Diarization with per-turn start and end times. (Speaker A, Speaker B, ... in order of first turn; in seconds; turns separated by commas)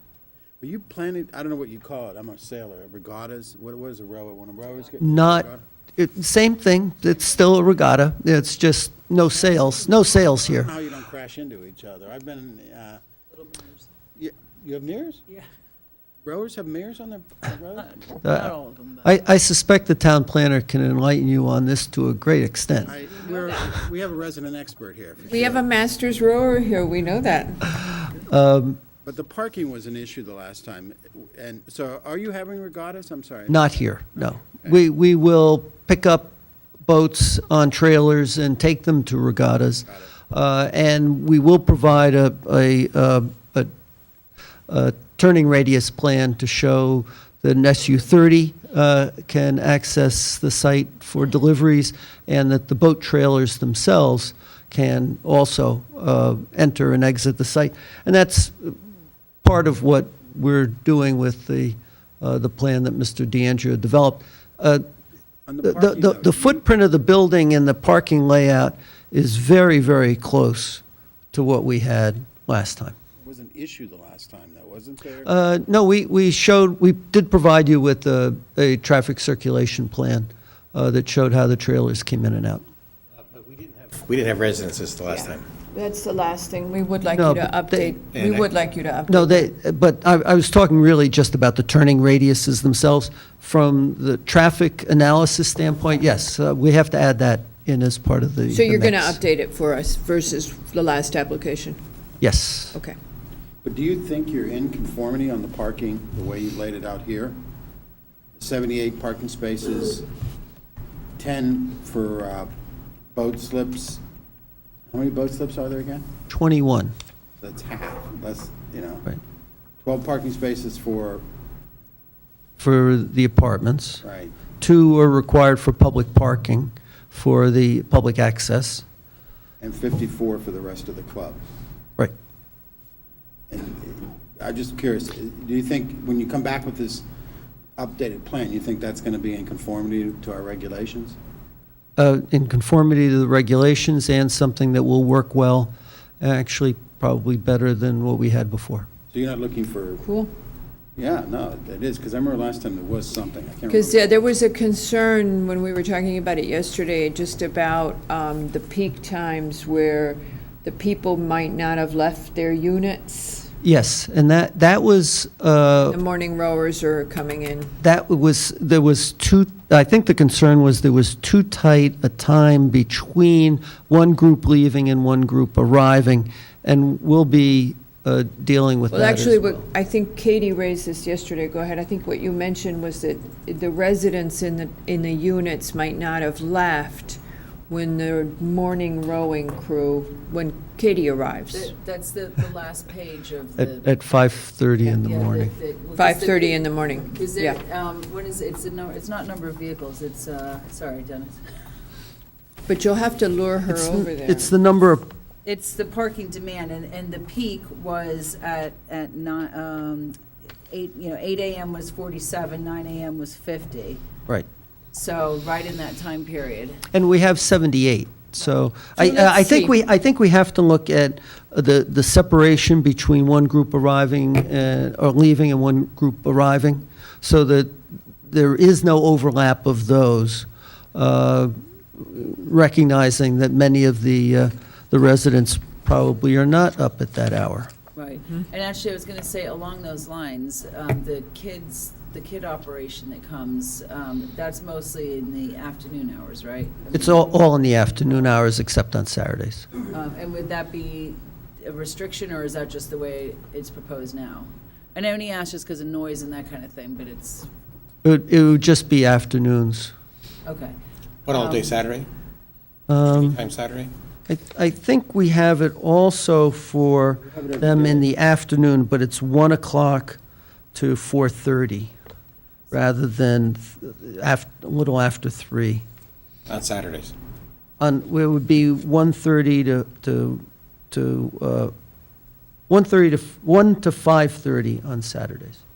Speaker A: 0.6-5.6, Speaker B: 5.0-10.7, Speaker A: 10.1-13.0, Speaker C: 13.3-13.9, Speaker A: 14.2-15.2, Speaker A: 16.2-17.9, Speaker C: 17.8-19.1, Speaker B: 18.2-18.5, Speaker B: 19.0-22.9, Speaker A: 22.9-25.7, Speaker C: 22.9-23.7, Speaker D: 25.3-27.7, Speaker B: 28.1-28.8, Speaker A: 29.0-34.8, Speaker B: 33.5-36.3, Speaker B: 36.9-43.7, Speaker B: 44.7-58.8, Speaker B: 59.4-64.8, Speaker A: 65.5-66.6, Speaker B: 65.6-73.0, Speaker A: 73.2-75.3, Speaker B: 75.2-82.6, Speaker E: 83.3-85.5, Speaker D: 85.1-89.5, Speaker B: 87.1-88.0, Speaker E: 88.1-88.5, Speaker B: 89.1-99.2, Speaker D: 98.5-101.8, Speaker B: 102.2-102.8, Speaker A: 103.6-107.3, Speaker A: 108.3-110.1, Speaker A: 111.2-112.5, Speaker A: 113.1-114.0, Speaker A: 114.9-116.1, Speaker B: 116.3-116.9, Speaker A: 117.4-119.1, Speaker A: 119.8-121.2, Speaker B: 122.6-124.0, Speaker A: 124.0-124.3, Speaker B: 124.6-128.8, Speaker A: 129.6-131.4, Speaker A: 133.5-137.1, Speaker A: 137.8-141.2, Speaker B: 142.0-148.9, Speaker A: 149.1-150.0, Speaker D: 150.0-150.3, Speaker A: 150.9-154.2, Speaker D: 153.7-163.5, Speaker B: 163.6-166.0, Speaker D: 165.8-167.8, Speaker B: 167.8-179.6, Speaker D: 178.9-191.7, Speaker C: 191.5-193.9, Speaker B: 193.6-195.5, Speaker C: 195.0-201.5, Speaker D: 196.0-197.6, Speaker D: 202.7-204.5, Speaker B: 203.7-205.1, Speaker C: 205.4-214.0, Speaker C: 214.9-216.8, Speaker B: 216.9-227.7, Speaker D: 218.9-219.7, Speaker B: 228.2-237.7, Speaker C: 237.9-247.3, Speaker B: 246.9-249.7, Speaker C: 249.9-257.5, Speaker B: 258.0-259.9, Speaker C: 260.4-260.7, Speaker E: 261.2-262.1, Speaker C: 261.3-261.8, Speaker B: 262.9-263.4, Speaker E: 263.1-263.9, Speaker B: 264.3-270.2, Speaker A: 267.3-268.1, Speaker B: 270.7-271.9, Speaker B: 272.7-275.8, Speaker E: 276.5-277.1, Speaker B: 277.8-281.7, Speaker B: 282.7-285.6